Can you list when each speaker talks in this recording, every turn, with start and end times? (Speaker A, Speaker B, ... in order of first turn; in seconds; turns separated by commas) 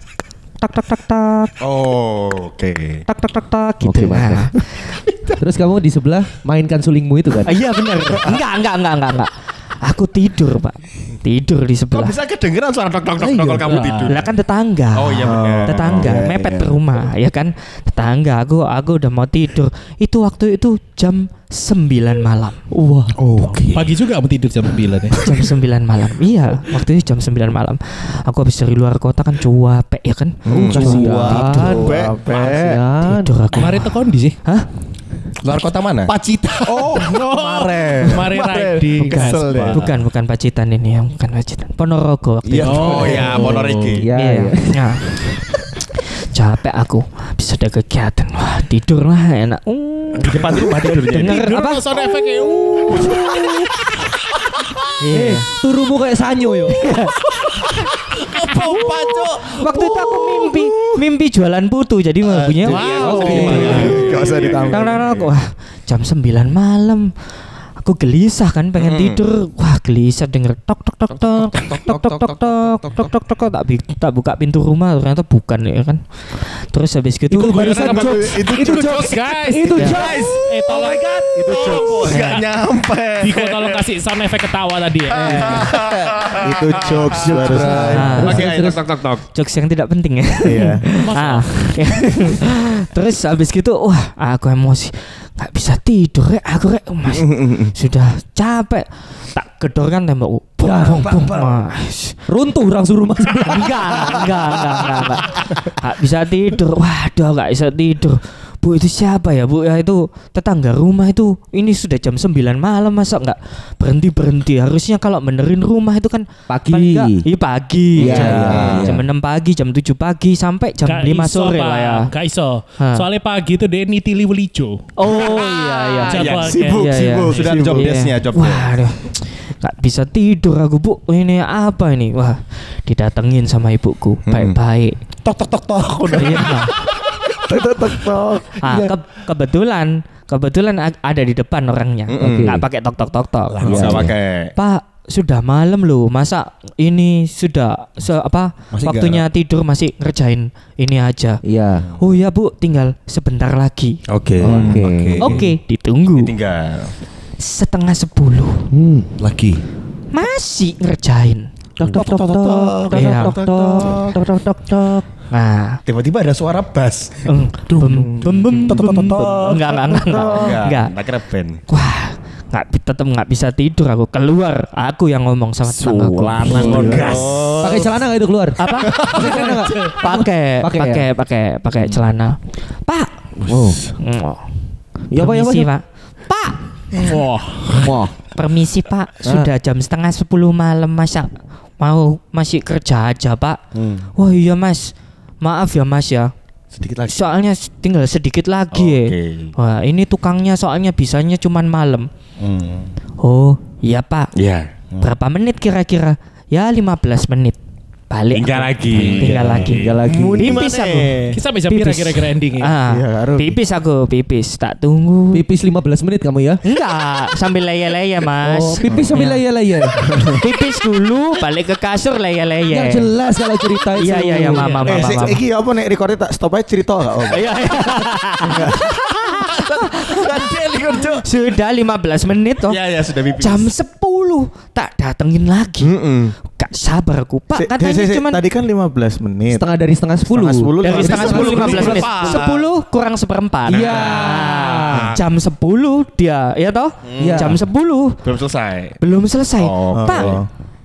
Speaker A: 0.6-1.5, Speaker B: 1.6-3.0, Speaker A: 3.1-4.8, Speaker C: 3.8-4.5, Speaker C: 5.4-7.6, Speaker A: 7.5-9.3, Speaker A: 9.8-12.2, Speaker B: 11.9-14.3, Speaker C: 13.2-13.7, Speaker D: 13.7-14.1, Speaker A: 14.1-22.6, Speaker B: 14.9-16.8, Speaker E: 15.2-15.9, Speaker C: 22.7-23.6, Speaker B: 23.4-23.7, Speaker D: 23.6-25.2, Speaker A: 25.1-31.1, Speaker B: 30.5-32.2, Speaker E: 30.5-32.8, Speaker C: 30.5-33.4, Speaker A: 33.0-34.7, Speaker D: 33.5-34.4, Speaker B: 35.4-39.9, Speaker E: 36.6-38.3, Speaker D: 37.0-40.0, Speaker A: 39.7-45.3, Speaker B: 42.5-44.1, Speaker D: 42.6-43.6, Speaker E: 43.1-44.0, Speaker C: 43.3-45.0, Speaker A: 46.3-52.2, Speaker B: 50.2-51.5, Speaker D: 51.1-53.2, Speaker A: 52.9-53.4, Speaker C: 53.0-53.6, Speaker A: 55.0-55.5, Speaker C: 55.1-57.0, Speaker A: 56.7-57.9, Speaker B: 57.3-61.0, Speaker A: 58.5-63.9, Speaker B: 62.3-65.3, Speaker D: 62.6-64.1, Speaker C: 63.0-64.0, Speaker E: 63.4-65.1, Speaker A: 64.7-67.1, Speaker A: 67.8-78.3, Speaker B: 68.8-69.2, Speaker C: 77.3-80.4, Speaker D: 77.4-82.5, Speaker E: 78.3-78.7, Speaker A: 79.7-80.0, Speaker B: 79.8-83.8, Speaker E: 81.3-83.2, Speaker A: 82.1-82.4, Speaker D: 83.2-85.7, Speaker B: 85.1-89.2, Speaker C: 85.2-86.2, Speaker E: 86.3-88.5, Speaker C: 87.1-88.8, Speaker A: 87.9-88.5, Speaker A: 89.2-102.2, Speaker E: 90.4-90.9, Speaker D: 91.0-91.7, Speaker B: 97.4-97.7, Speaker C: 100.6-101.4, Speaker C: 102.3-104.0, Speaker A: 103.4-122.1, Speaker C: 116.5-117.2, Speaker C: 118.0-119.1, Speaker B: 118.0-118.8, Speaker E: 118.1-118.7, Speaker D: 120.8-124.8, Speaker A: 122.8-123.1, Speaker A: 125.0-135.0, Speaker B: 125.2-128.8, Speaker D: 126.1-127.6, Speaker E: 126.5-128.0, Speaker B: 134.3-134.6, Speaker B: 135.2-137.3, Speaker A: 136.2-136.7, Speaker E: 137.4-138.6, Speaker A: 138.6-144.0, Speaker B: 138.7-138.9, Speaker B: 142.1-142.6, Speaker C: 142.2-142.7, Speaker B: 143.5-144.5, Speaker C: 143.6-144.1, Speaker A: 144.6-151.4, Speaker B: 148.7-149.2, Speaker C: 151.4-151.9, Speaker A: 152.0-154.0, Speaker B: 154.1-155.5, Speaker C: 154.4-155.5, Speaker A: 155.2-156.3, Speaker B: 156.2-156.9, Speaker A: 157.4-158.7, Speaker C: 158.7-159.1, Speaker B: 159.2-159.6, Speaker A: 160.1-161.5, Speaker C: 161.8-165.1, Speaker B: 161.8-164.2, Speaker A: 162.9-163.4, Speaker A: 165.3-165.8, Speaker B: 165.9-171.6, Speaker A: 167.2-171.0, Speaker C: 168.7-169.4, Speaker A: 171.7-177.1, Speaker B: 175.7-178.1, Speaker C: 175.9-181.1, Speaker E: 176.5-177.6, Speaker A: 178.6-183.1, Speaker B: 178.7-179.6, Speaker B: 183.4-183.9, Speaker C: 183.5-183.8, Speaker A: 184.0-184.4, Speaker C: 185.1-185.7, Speaker A: 185.1-187.1, Speaker D: 187.0-187.8, Speaker C: 187.7-188.2, Speaker A: 188.3-193.6, Speaker B: 193.8-194.1, Speaker A: 194.2-196.3, Speaker B: 196.7-197.2, Speaker A: 197.1-202.1, Speaker B: 198.7-199.5, Speaker B: 202.4-202.9, Speaker A: 203.2-204.3, Speaker B: 204.4-205.1, Speaker A: 205.0-207.6, Speaker A: 208.1-215.4, Speaker B: 208.3-211.4, Speaker C: 209.3-210.7, Speaker D: 211.3-212.8, Speaker E: 212.9-213.6, Speaker C: 215.3-216.6, Speaker A: 216.7-219.4, Speaker C: 218.4-220.2, Speaker E: 218.8-219.1, Speaker A: 220.4-223.1, Speaker C: 222.7-225.1, Speaker A: 224.0-225.4, Speaker E: 224.8-227.6, Speaker A: 227.3-235.9, Speaker E: 228.5-228.8, Speaker B: 228.7-231.2, Speaker B: 232.7-233.7, Speaker B: 235.8-236.3, Speaker A: 236.5-238.4, Speaker E: 237.6-239.7, Speaker C: 239.5-242.4, Speaker E: 240.3-242.4, Speaker A: 240.8-248.2, Speaker B: 240.9-242.7, Speaker C: 243.7-245.2, Speaker B: 243.8-244.3, Speaker B: 244.9-245.2, Speaker B: 247.1-247.6, Speaker C: 247.2-247.6, Speaker B: 248.2-249.0, Speaker A: 249.0-250.4, Speaker B: 249.6-250.4, Speaker E: 249.9-250.5